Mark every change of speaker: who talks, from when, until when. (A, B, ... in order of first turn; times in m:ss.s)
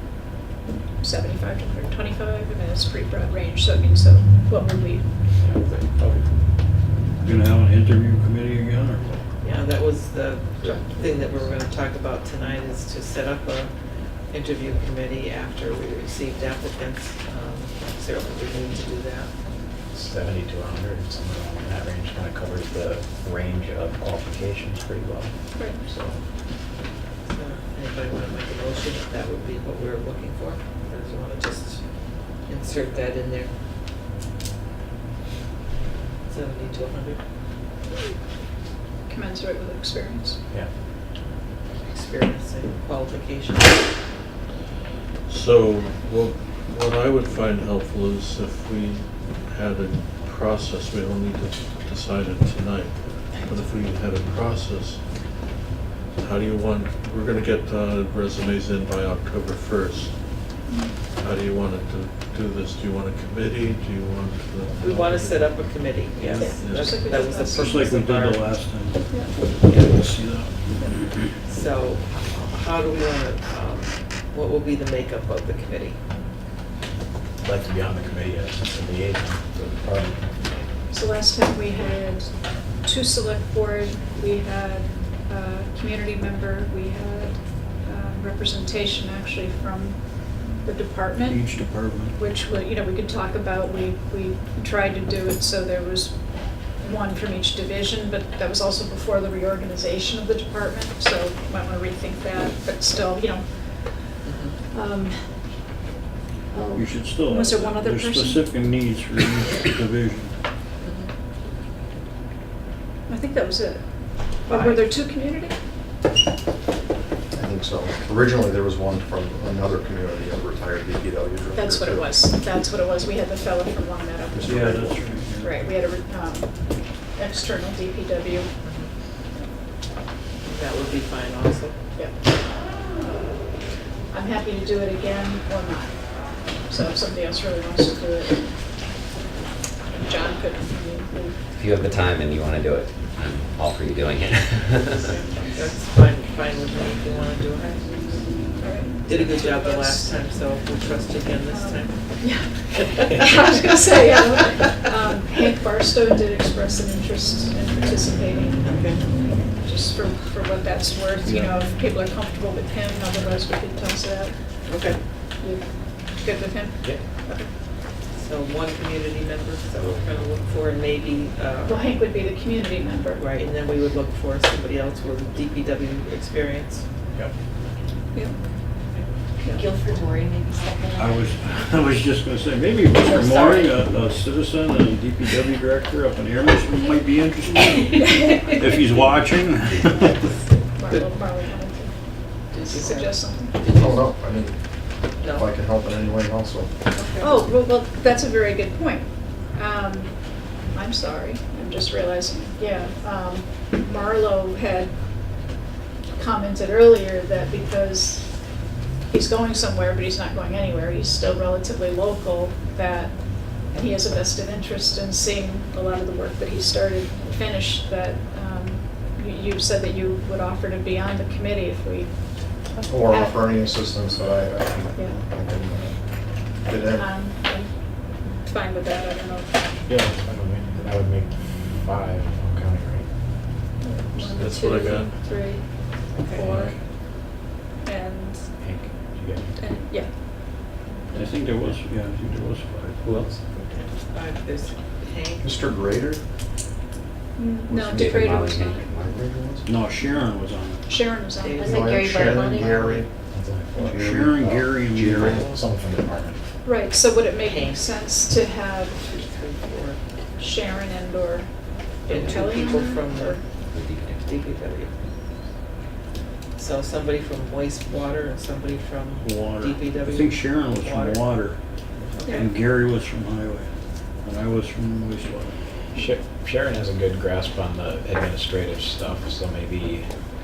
0:01.0-0:05.1 A
0:05.4-0:06.2 B
0:07.2-0:09.2 C
0:09.4-0:13.7 D
0:10.6-0:11.3 A
0:14.3-0:19.3 D
0:19.9-0:26.2 B
0:25.5-0:25.9 A
0:27.2-0:33.5 D
0:36.3-0:37.2 D
0:39.1-0:40.4 A
0:41.7-0:43.9 D
0:45.3-0:55.4 E
0:56.2-1:00.6 E
1:00.6-1:01.0 A
1:01.1-1:07.2 E
1:04.8-1:08.5 D
1:06.4-1:08.0 A
1:07.4-1:11.2 C
1:09.1-1:09.3 A
1:09.6-1:10.0 D
1:10.8-1:11.0 A
1:11.4-1:16.0 D
1:17.4-1:20.2 B
1:20.9-1:22.3 A
1:22.8-1:31.5 A
1:31.2-1:32.2 C
1:32.2-1:43.9 A
1:44.2-1:44.5 D
1:44.7-1:45.2 A
1:46.5-1:48.4 A
1:46.7-1:50.3 C
1:50.8-1:51.1 D
1:53.1-1:55.5 A
1:54.5-1:54.8 D
1:57.3-2:02.1 F
2:01.5-2:08.5 A
2:04.4-2:05.7 C
2:08.6-2:08.9 D
2:10.4-2:11.8 D
2:12.0-2:13.0 A
2:14.1-2:18.5 A
2:19.9-2:21.4 A
2:21.5-2:25.1 G
2:24.9-2:28.3 D
2:28.6-2:30.2 A
2:29.0-2:32.2 D
2:31.5-2:44.7 A
2:32.9-2:33.7 D
2:38.6-2:39.0 D
2:44.6-2:45.0 D
2:45.4-2:47.5 A
2:48.1-2:51.9 D
2:51.6-2:53.2 A
2:53.2-2:56.8 D
2:58.1-2:58.4 A
2:59.4-3:01.1 H
3:00.9-3:10.3 C
3:03.0-3:03.7 A
3:08.0-3:08.5 A
3:10.7-3:11.9 A
3:12.5-3:13.5 A
3:12.5-3:14.1 D
3:13.7-3:14.6 F
3:15.2-3:15.5 D
3:15.2-3:16.7 F
3:16.9-3:17.3 D
3:17.2-3:25.0 A
3:26.2-3:28.3 A
3:29.1-3:43.4 A
3:42.8-3:46.0 F
3:46.6-3:47.1 F
3:46.9-3:49.6 A
3:49.9-3:53.1 B
3:53.8-3:55.6 A
3:54.3-3:55.2 E
3:56.1-3:56.6 D
3:56.3-3:56.7 A
3:57.8-3:58.5 A
3:58.6-3:59.6 B
3:59.6-4:00.1 A
4:01.1-4:03.1 C
4:03.0-4:03.4 B
4:03.6-4:05.5 D
4:05.4-4:06.2 F
4:07.4-4:08.9 A
4:07.7-4:08.2 F
4:07.9-4:09.3 G
4:08.9-4:09.7 F
4:09.6-4:10.8 C
4:10.9-4:11.7 A
4:11.4-4:13.0 D
4:11.6-4:13.1 F
4:11.6-4:12.7 H
4:13.3-4:14.0 B
4:13.7-4:14.7 F
4:13.9-4:15.4 C
4:14.9-4:16.4 B
4:15.2-4:15.6 D
4:16.6-4:19.0 A
4:17.4-4:18.0 D
4:19.0-4:20.0 D
4:20.4-4:21.5 A
4:22.0-4:23.4 A
4:22.1-4:23.4 D
4:23.7-4:24.3 G
4:24.2-4:24.9 D
4:26.6-4:31.3 D
4:29.2-4:31.6 C
4:32.1-4:32.5 D
4:32.2-4:32.5 A
4:32.3-4:33.7 C
4:34.2-4:35.5 C
4:35.9-4:40.1 B